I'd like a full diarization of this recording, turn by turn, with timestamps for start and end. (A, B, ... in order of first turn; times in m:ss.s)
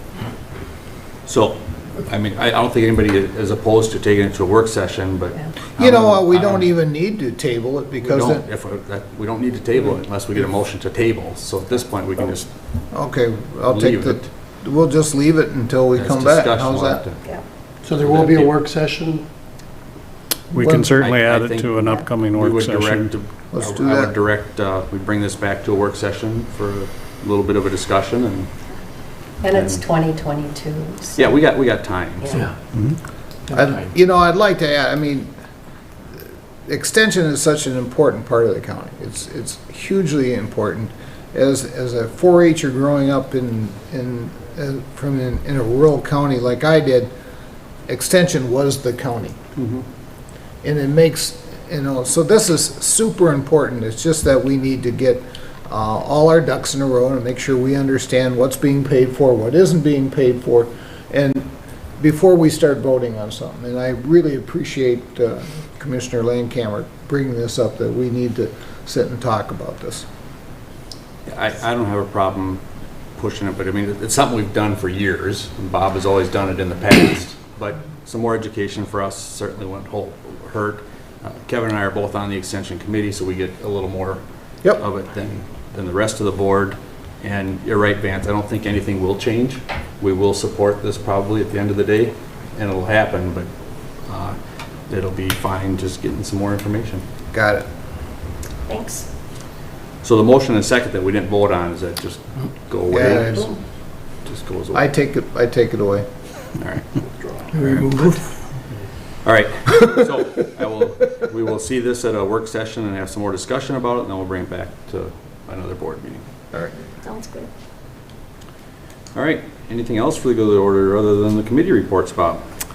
0:01.2-0:06.7 A
0:05.7-0:08.4 B
0:08.0-0:12.5 A
0:12.9-0:17.0 B
0:13.7-0:14.3 A
0:16.0-0:17.2 A
0:17.8-0:19.2 C
0:18.0-0:18.5 A
0:20.5-0:23.1 D
0:20.7-0:28.5 A
0:21.8-0:22.1 E
0:23.5-0:24.1 B
0:29.4-0:31.4 E
0:29.5-0:29.8 A
0:31.2-0:32.4 A
0:32.2-0:32.5 E
0:33.5-0:35.3 B
0:36.6-0:47.1 B
0:47.9-0:49.4 B
0:49.6-0:49.8 A
0:50.6-1:01.5 B
1:02.0-1:10.0 B
1:11.3-1:12.6 A
1:13.2-1:33.5 A
1:34.0-1:34.4 A
1:34.9-1:37.0 A
1:37.3-1:37.7 B
1:38.7-1:39.1 E
1:40.0-1:43.3 A
1:42.9-1:43.5 B
1:43.0-1:43.5 C
1:44.2-1:44.9 A
1:44.7-1:46.0 B
1:46.6-1:47.0 A
1:47.5-1:48.2 A
1:49.2-1:56.2 A
1:56.5-1:56.8 B
1:57.0-1:57.5 E
1:59.1-2:02.4 A